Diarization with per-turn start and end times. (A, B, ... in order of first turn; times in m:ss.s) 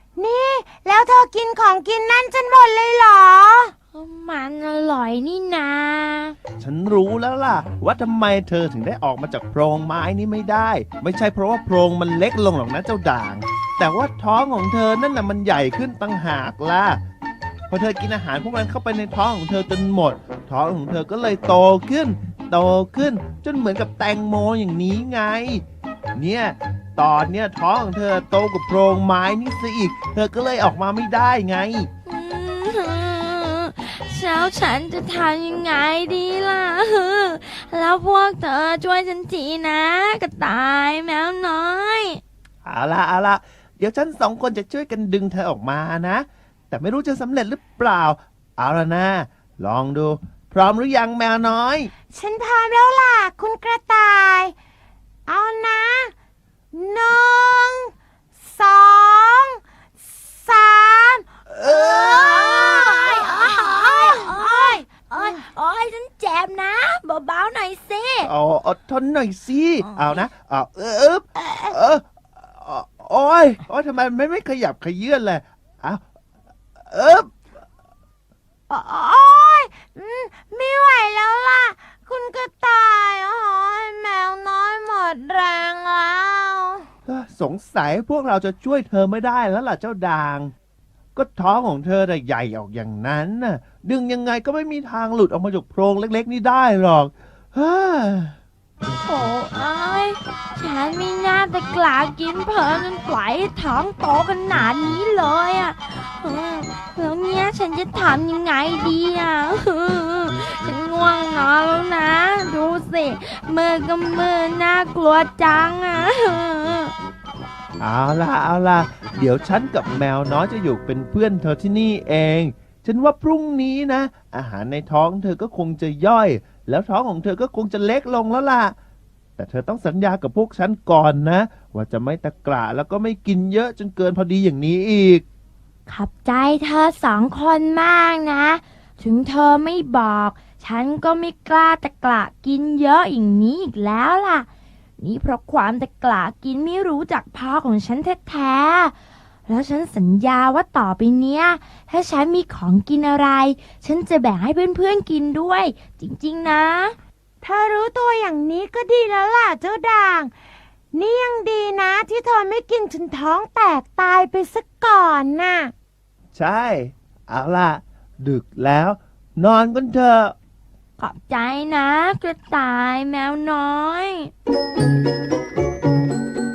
0:00.2-0:03.7 A
0:03.9-0:06.4 B
0:06.6-0:17.0 C
0:17.7-0:25.6 C
0:26.2-0:31.9 C
0:32.1-0:42.2 B
0:42.6-0:51.9 C
0:52.1-0:54.5 A
0:55.3-0:56.1 A
0:56.7-1:01.2 A
1:01.5-1:02.5 C
1:01.7-1:08.3 B
1:02.5-1:05.3 A
1:08.2-1:16.0 C
1:09.8-1:10.3 B
1:11.4-1:11.7 B
1:16.9-1:17.3 C
1:18.7-1:26.9 A
1:27.1-1:30.5 C
1:31.2-1:38.4 C
1:39.0-1:56.9 B
1:57.8-2:08.8 C
2:09.4-2:15.2 C
2:15.9-2:24.5 B
2:25.0-2:28.9 B
2:29.5-2:37.0 B
2:37.4-2:40.3 A
2:40.9-2:45.7 A
2:46.4-2:50.4 C
2:51.0-2:54.3 B